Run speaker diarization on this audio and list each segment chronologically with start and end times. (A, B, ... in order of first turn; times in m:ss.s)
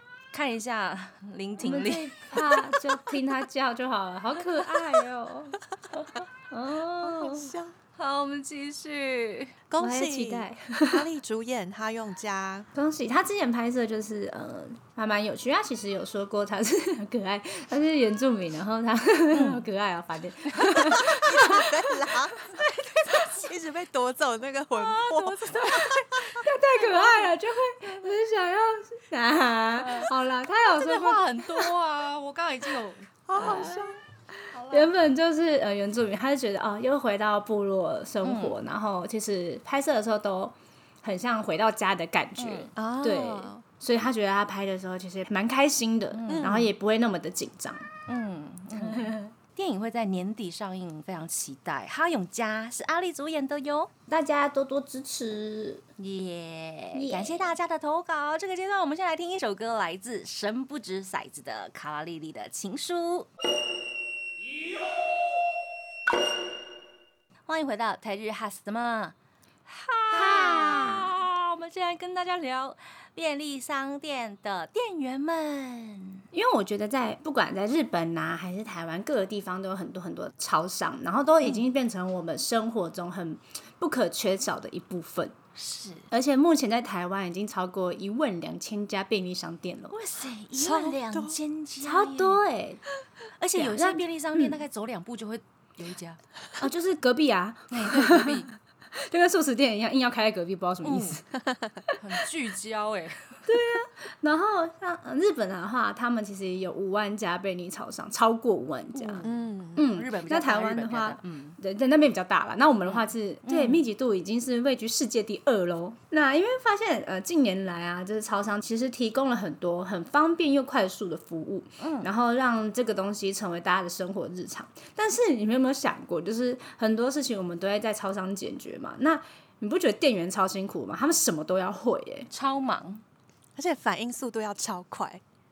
0:00.3-0:02.4 A
0:01.6-0:07.5 B
0:07.0-0:07.8 C
0:08.0-0:09.6 A
0:09.7-0:12.7 C
0:09.8-0:11.1 B
0:12.7-0:23.4 B
0:19.3-0:19.6 A
0:21.0-0:22.4 C
0:23.1-0:26.5 C
0:24.7-0:26.0 A
0:25.7-0:31.7 B
0:29.8-0:33.8 A
0:33.3-0:34.0 C
0:33.4-0:33.8 B
0:34.5-0:34.9 A
0:34.7-0:47.9 B
0:38.2-0:38.6 A
0:42.4-0:42.7 A
0:42.8-0:43.6 C
0:46.1-0:46.6 A
0:46.3-0:46.7 C
0:48.1-0:53.9 A
0:48.8-0:49.3 B
0:54.1-0:55.8 B
0:56.0-1:03.3 A
0:56.9-0:57.5 B
1:07.5-1:09.1 A
1:09.7-1:16.2 A
1:10.1-1:11.1 B
1:16.3-1:25.3 B
1:25.5-1:26.1 A
1:26.1-1:30.0 B
1:29.9-1:32.4 A
1:30.6-1:31.4 C
1:31.8-1:32.8 B
1:33.4-1:36.2 A
1:33.5-1:34.6 B
1:36.6-1:41.3 B
1:37.7-1:38.5 A
1:40.8-1:41.2 A
1:42.0-1:43.5 A
1:43.5-2:12.3 B
1:48.9-1:51.6 A
1:49.2-1:49.8 C
1:52.8-1:53.8 A
2:01.8-2:02.1 A
2:12.3-2:13.0 A
2:13.6-2:15.2 C